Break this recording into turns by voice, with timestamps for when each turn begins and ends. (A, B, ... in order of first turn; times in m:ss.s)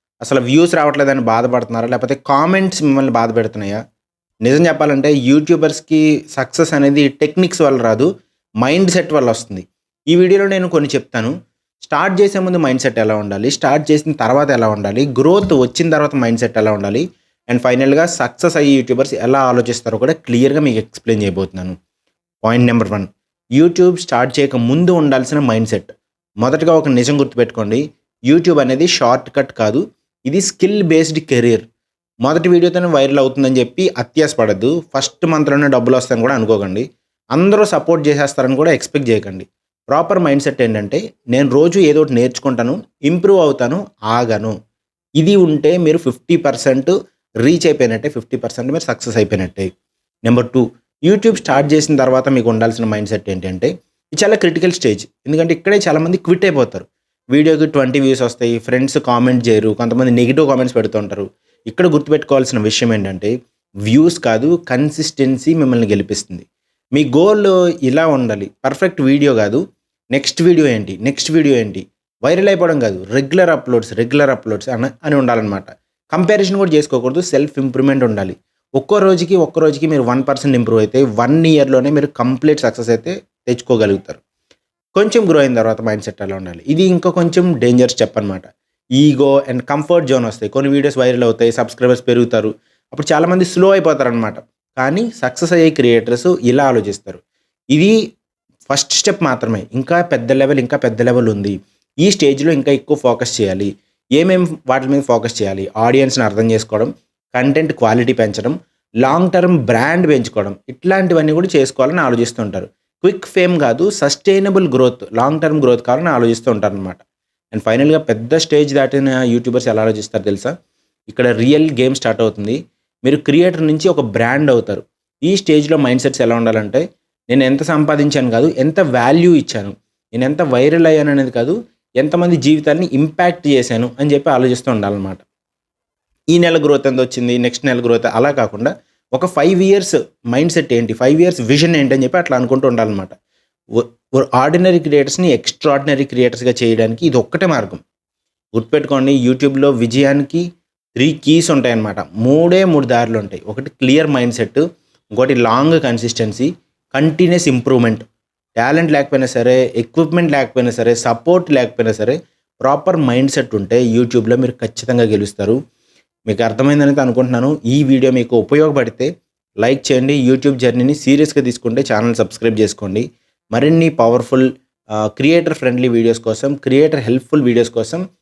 0:00.2-0:03.8 A
0:04.4-0:08.1 A
0:08.6-0:21.8 A
0:22.4-0:31.7 A
0:32.2-0:44.6 A
0:45.2-0:49.7 A
0:50.2-1:03.3 A
1:03.8-1:09.6 A
1:10.1-1:24.2 A
1:25.0-1:28.4 A
1:29.0-1:37.2 A
1:38.7-1:57.0 A
1:57.5-2:00.5 A
2:01.1-2:15.2 A
2:16.3-2:23.1 A
2:23.8-2:27.8 A
2:28.6-2:30.4 A
2:31.0-2:38.0 A
2:38.6-2:45.6 A
2:46.3-2:49.1 A
2:49.6-2:54.5 A
2:55.0-2:58.0 A